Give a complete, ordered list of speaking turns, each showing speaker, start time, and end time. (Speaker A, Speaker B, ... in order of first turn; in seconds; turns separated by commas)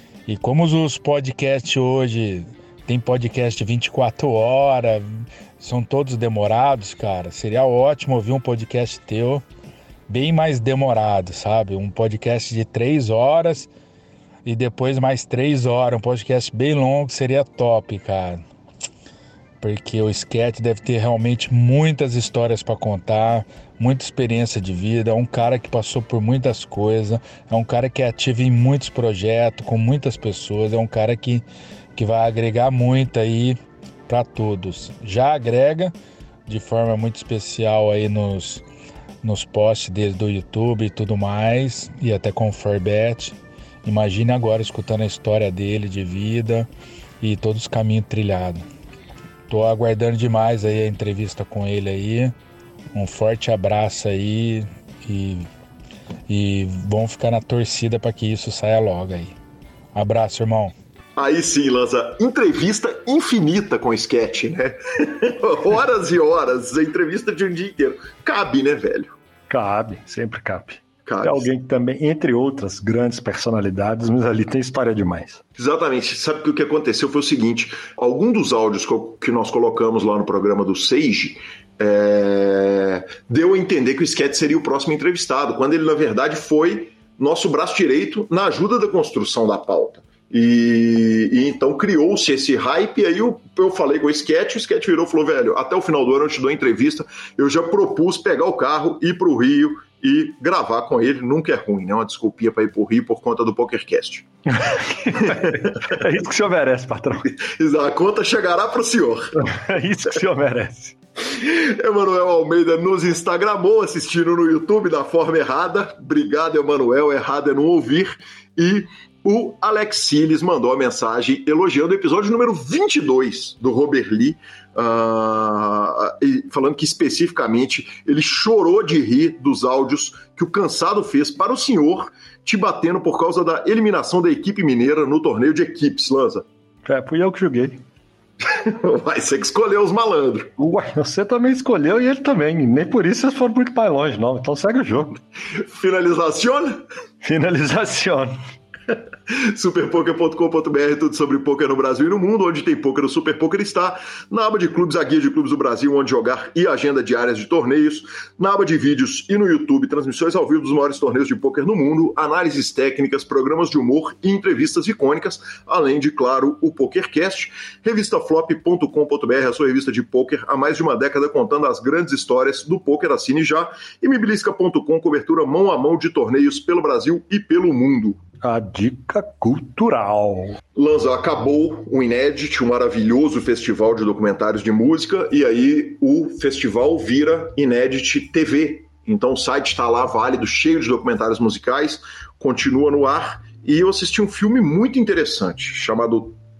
Speaker A: 0.3-9.4, Speaker A: 10.1-13.7, Speaker A: 14.4-18.4, Speaker A: 19.6-31.4, Speaker A: 31.9-35.9, Speaker A: 36.5-38.6, Speaker A: 39.2-46.7, Speaker A: 47.2-48.6, Speaker A: 49.5-52.3, Speaker A: 52.9-55.5, Speaker A: 56.3-59.3, Speaker A: 59.9-60.7, Speaker B: 61.1-69.1, Speaker C: 69.5-75.4, Speaker B: 71.0-71.5, Speaker B: 75.6-104.2, Speaker C: 104.6-107.3, Speaker B: 105.1-106.0, Speaker B: 107.3-109.5, Speaker C: 109.4-111.0, Speaker B: 111.3-136.4, Speaker C: 136.8-137.8, Speaker B: 138.4-140.5, Speaker C: 140.6-145.2, Speaker B: 145.5-146.8, Speaker C: 147.2-148.3, Speaker B: 148.9-178.2, Speaker C: 178.4-180.6, Speaker B: 180.7-196.4